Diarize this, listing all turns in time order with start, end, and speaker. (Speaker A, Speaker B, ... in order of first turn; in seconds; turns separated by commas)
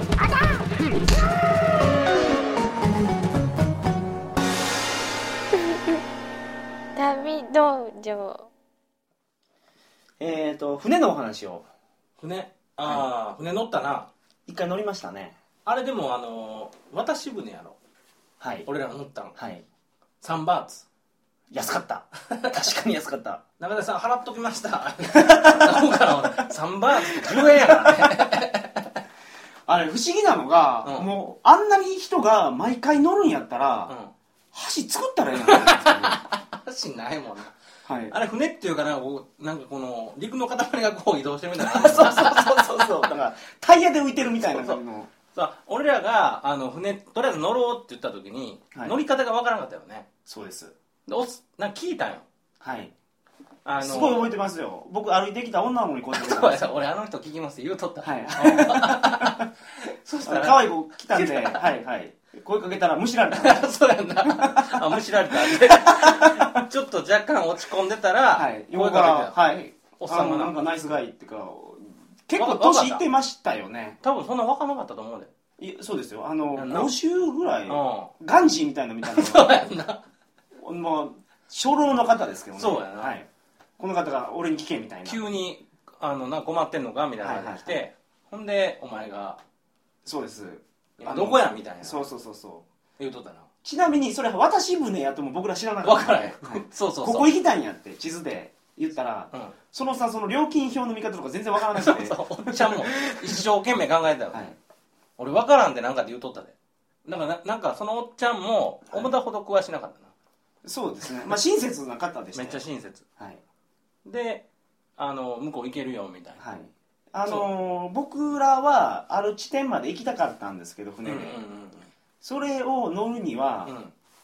Speaker A: 0.2-0.7, Speaker A: 5.6-6.0, Speaker A: 7.0-8.5, Speaker B: 10.2-11.7, Speaker C: 12.2-14.1, Speaker B: 14.5-15.3, Speaker C: 15.7-17.8, Speaker B: 18.4-18.7, Speaker C: 18.6-19.4, Speaker B: 19.4-19.6, Speaker C: 20.2-20.9, Speaker B: 21.5-23.4, Speaker C: 23.6-29.0, Speaker B: 25.1-26.0, Speaker B: 26.9-27.9, Speaker B: 29.7-33.9, Speaker C: 30.9-31.1, Speaker C: 33.9-34.1, Speaker B: 34.5-36.2, Speaker C: 35.4-37.5, Speaker B: 37.9-38.1, Speaker C: 38.1-43.0, Speaker B: 41.6-45.1, Speaker C: 44.5-44.8, Speaker C: 45.3-50.1, Speaker B: 50.3-50.7, Speaker C: 51.1-52.3, Speaker B: 52.6-52.9, Speaker C: 53.6-54.3, Speaker B: 53.8-56.8, Speaker C: 56.1-61.6, Speaker B: 58.0-59.5, Speaker B: 60.2-63.7, Speaker C: 63.3-69.4, Speaker B: 64.2-66.6, Speaker B: 68.3-74.0, Speaker C: 70.0-70.5, Speaker C: 72.3-73.0, Speaker C: 74.0-75.3, Speaker B: 75.6-79.7, Speaker C: 76.6-76.9, Speaker C: 77.7-78.1, Speaker C: 79.0-80.0, Speaker B: 80.6-83.3, Speaker C: 82.6-83.2, Speaker B: 83.8-85.2, Speaker C: 85.0-89.4, Speaker B: 87.2-87.8, Speaker B: 90.0-92.7, Speaker C: 91.0-92.1, Speaker C: 93.0-93.5, Speaker B: 93.6-103.4, Speaker C: 95.8-97.3, Speaker C: 101.6-104.5, Speaker B: 104.3-104.6, Speaker C: 105.2-110.1, Speaker B: 110.7-112.6, Speaker C: 112.3-113.0, Speaker C: 114.0-114.5, Speaker C: 115.0-116.4, Speaker B: 116.4-121.4, Speaker C: 121.0-121.9, Speaker B: 122.2-123.8, Speaker C: 123.7-123.9